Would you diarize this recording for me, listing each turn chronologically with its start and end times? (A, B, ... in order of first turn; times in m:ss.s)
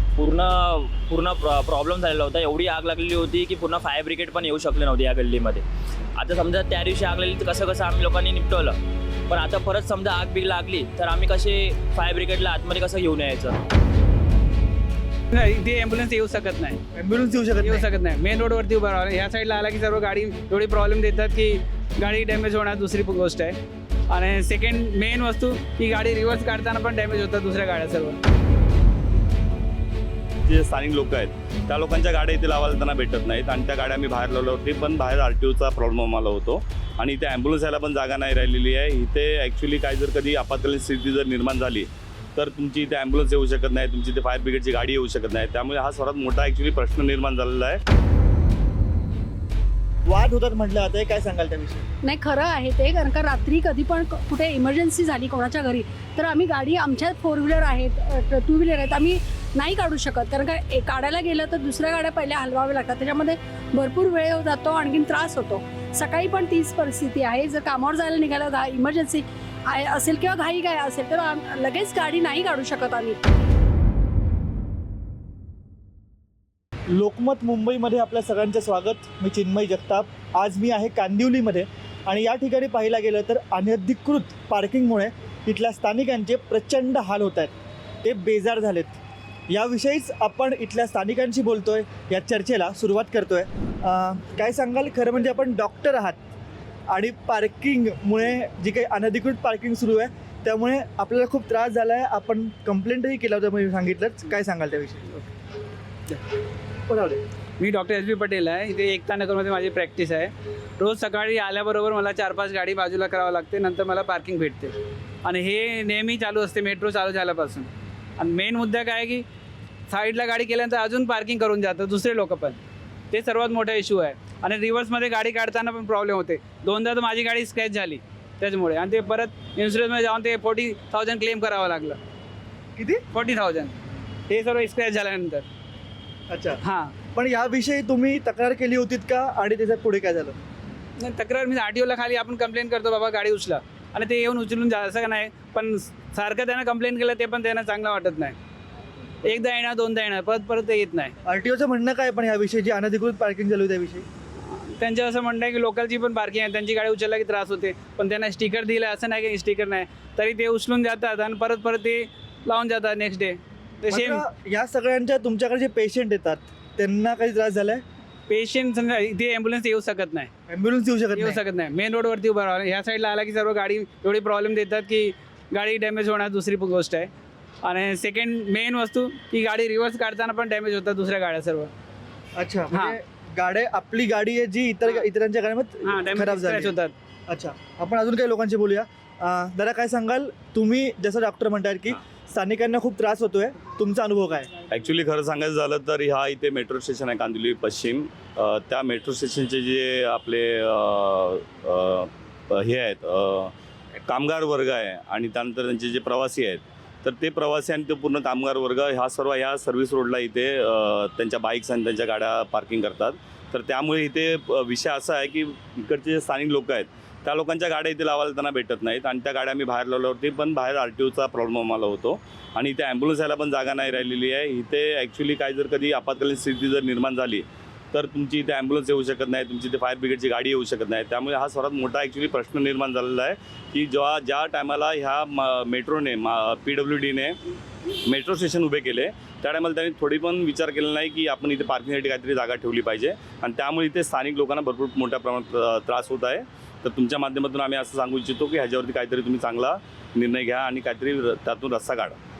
0:00.2-0:05.6 A
0:06.2-0:08.8 A
0:09.3-0:13.6 A
0:15.3-0:16.8 B
0:16.9-0:17.8 C
0:17.6-0:23.6 B
0:24.1-0:28.2 B
0:30.5-0:47.8 D
0:50.1-0:51.8 C
0:52.0-1:13.2 E
1:16.9-1:27.5 C
1:28.0-1:29.0 C
1:29.5-1:36.2 C
1:36.9-1:45.1 C
1:46.9-1:47.2 C
1:47.6-1:59.3 B
1:59.9-2:02.6 B
2:03.1-2:12.0 B
2:12.8-2:13.0 C
2:13.1-2:13.8 B
2:14.3-2:15.5 B
2:16.3-2:16.6 C
2:16.6-2:17.0 B
2:17.1-2:20.4 C
2:21.0-2:28.4 B
2:29.2-2:31.1 B
2:31.2-2:34.0 C
2:34.5-2:44.2 B
2:43.9-2:47.8 C
2:48.3-2:50.3 B
2:50.5-2:51.4 C
2:51.2-2:57.1 B
2:57.6-3:01.7 B
3:02.4-3:06.8 C
3:02.7-3:03.0 B
3:05.8-3:07.0 B
3:07.3-3:14.5 C
3:14.7-3:23.5 D
3:24.0-3:57.4 D
3:58.1-4:12.2 D